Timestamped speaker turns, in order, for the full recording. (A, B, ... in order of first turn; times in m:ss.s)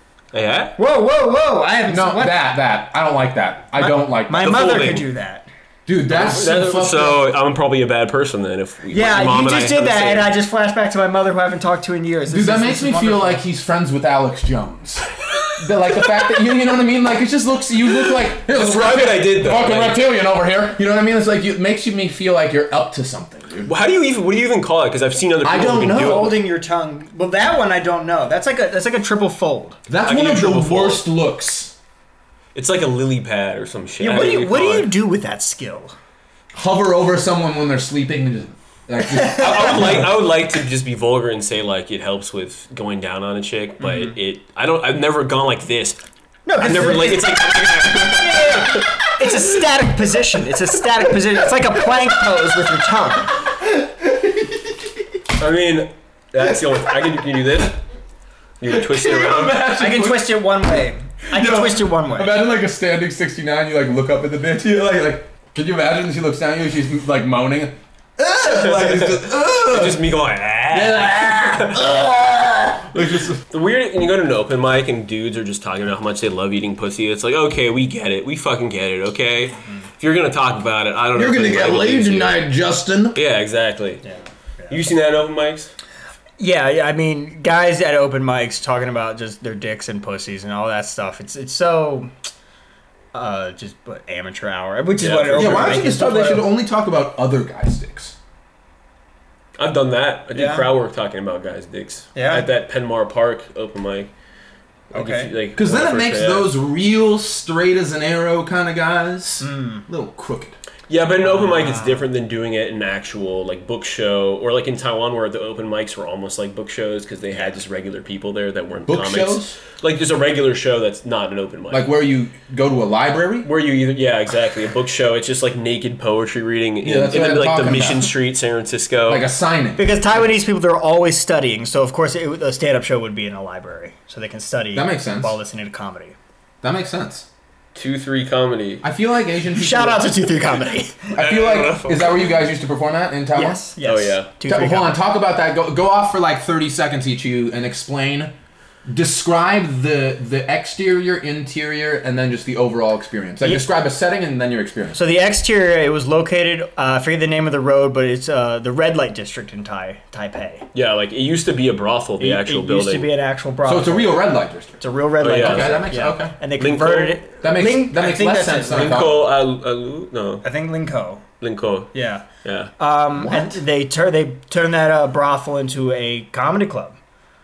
0:00.3-0:00.8 A
0:00.8-0:02.4 B
0:01.9-0:04.7 C
0:03.8-0:05.5 B
0:04.4-0:05.0 A
0:05.8-0:07.2 C
0:06.1-0:10.3 A
0:08.9-0:13.4 B
0:12.3-0:23.7 C
0:18.0-0:20.0 A
0:23.6-0:26.3 A
0:25.4-0:26.3 C
0:25.9-0:29.8 B
0:29.9-0:31.8 C
0:30.0-0:31.0 A
0:32.5-0:34.9 A
0:34.0-0:35.9 B
0:36.5-0:40.1 C
0:39.1-0:39.7 B
0:39.2-0:46.0 A
0:43.8-0:44.1 B
0:46.4-0:53.4 B
0:46.6-0:49.0 A
0:53.4-0:55.0 C
0:55.4-0:57.8 A
0:58.6-0:59.6 A
0:58.6-1:00.4 C
0:59.8-1:02.4 B
1:01.3-1:10.0 C
1:08.4-1:11.9 A
1:10.7-1:13.4 C
1:13.5-1:22.4 A
1:21.1-1:23.2 C
1:23.1-1:24.0 A
1:24.0-1:24.9 B
1:24.7-1:25.7 A
1:26.4-1:32.1 B
1:33.1-1:36.5 B
1:35.0-1:35.8 A
1:35.3-1:38.2 C
1:39.6-1:44.1 A
1:40.3-1:40.7 B
1:42.1-1:42.5 B
1:44.9-1:46.5 A
1:44.9-1:45.3 B
1:45.5-1:50.6 C
1:49.4-1:49.8 B
1:50.9-2:01.9 A
1:51.2-1:52.0 B
1:58.8-1:59.6 C
2:01.7-2:03.5 C
2:03.4-2:09.2 A
2:06.8-2:08.1 C
2:09.1-2:10.2 C
2:09.8-2:16.2 B
2:14.7-2:15.4 C
2:16.6-2:17.3 C
2:17.7-2:18.8 A
2:18.8-2:20.1 C
2:19.5-2:21.2 B
2:21.1-2:23.6 C
2:21.2-2:22.4 A
2:23.3-2:25.0 B
2:23.8-2:24.3 A
2:24.4-2:28.3 C
2:28.8-2:35.0 C
2:34.9-2:40.6 B
2:40.7-2:43.1 A
2:42.2-2:44.3 B
2:43.6-2:46.4 C
2:44.8-2:49.1 B
2:45.2-2:45.9 A
2:46.6-2:47.2 A
2:47.4-2:49.2 C
2:48.7-2:50.4 A
2:50.4-2:51.2 B
2:51.4-2:51.9 A
2:51.9-2:52.2 B
2:52.4-2:52.7 A
2:52.8-2:57.0 B
2:53.1-2:53.6 C